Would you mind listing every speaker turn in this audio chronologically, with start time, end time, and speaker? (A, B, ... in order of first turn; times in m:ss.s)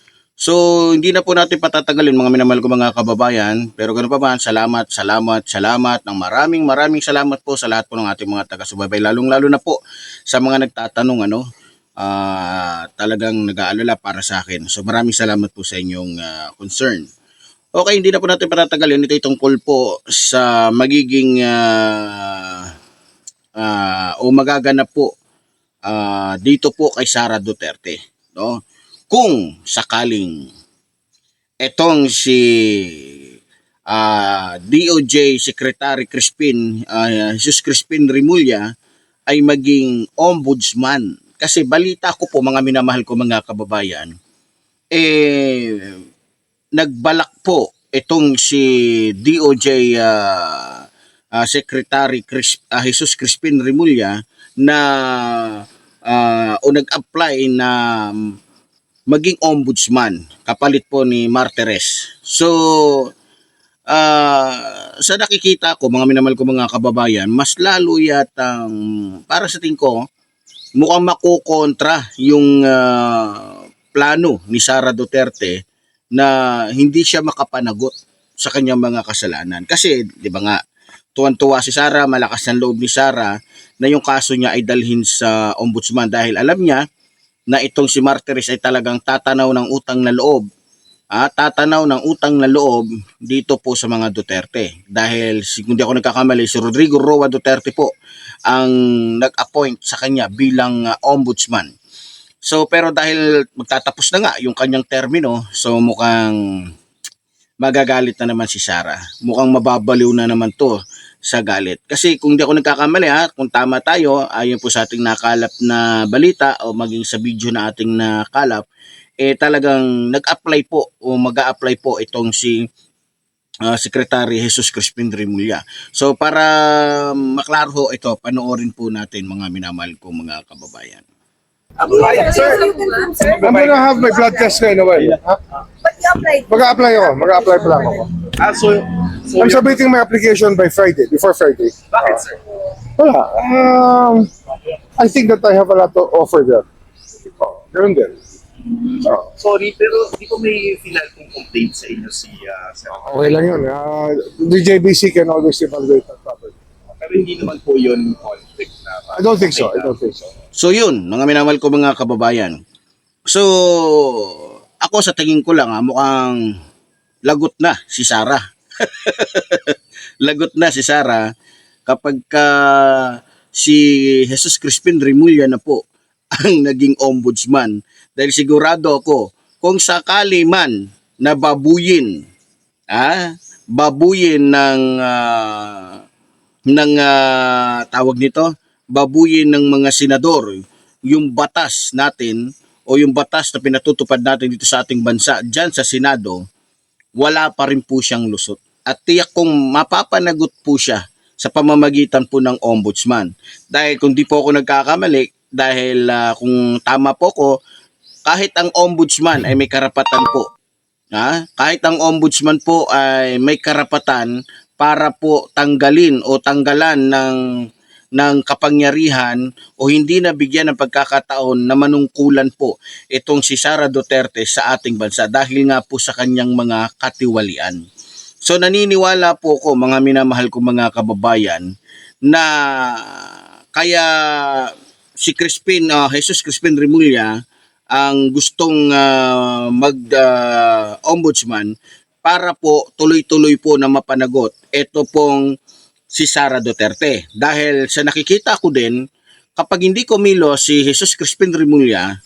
0:00.4-0:09.8 A
0:10.3-0:11.4 A
0:12.0-0:17.1 A
0:17.8-0:22.7 A
0:23.6-0:25.1 A
0:25.9-0:28.6 A
0:29.1-0:30.4 A
0:31.6-0:33.2 A
0:33.9-0:38.7 A
0:39.3-0:44.1 A
0:44.9-0:46.0 A
0:46.8-0:50.9 A
0:51.4-0:58.4 A
0:59.1-1:03.1 A
1:03.9-1:10.0 A
1:10.8-1:15.6 A
1:16.2-1:20.6 A
1:21.2-1:26.8 A
1:27.5-1:30.4 A
1:31.1-1:37.9 A
1:38.5-1:41.7 A
1:42.4-1:46.4 A
1:47.6-1:58.7 A
1:59.2-2:02.6 A
2:03.6-2:11.0 A
2:11.8-2:13.9 B
2:11.9-2:14.6 C
2:12.2-2:12.6 D
2:13.4-2:15.4 D
2:15.8-2:18.0 C
2:16.5-2:18.1 D
2:18.4-2:19.8 B
2:19.4-2:22.2 D
2:21.9-2:22.4 B
2:23.0-2:24.3 D
2:25.0-2:26.7 D
2:27.4-2:28.2 D
2:28.8-2:33.4 B
2:29.0-2:29.3 D
2:33.0-2:36.6 D
2:37.0-2:40.2 B
2:39.1-2:40.2 D
2:40.6-2:42.6 A
2:43.3-2:46.5 A
2:47.2-2:51.2 A
2:51.9-2:55.8 A
2:56.3-3:02.2 A
3:02.9-3:06.0 A
3:06.7-3:16.4 A
3:17.2-3:27.6 A
3:28.3-3:30.5 A
3:31.1-3:37.4 A
3:38.2-3:47.8 A
3:48.4-3:51.7 A
3:52.3-3:57.4 A
3:57.9-4:01.7 A
4:02.2-4:05.5 A
4:06.1-4:09.0 A
4:09.6-4:12.1 A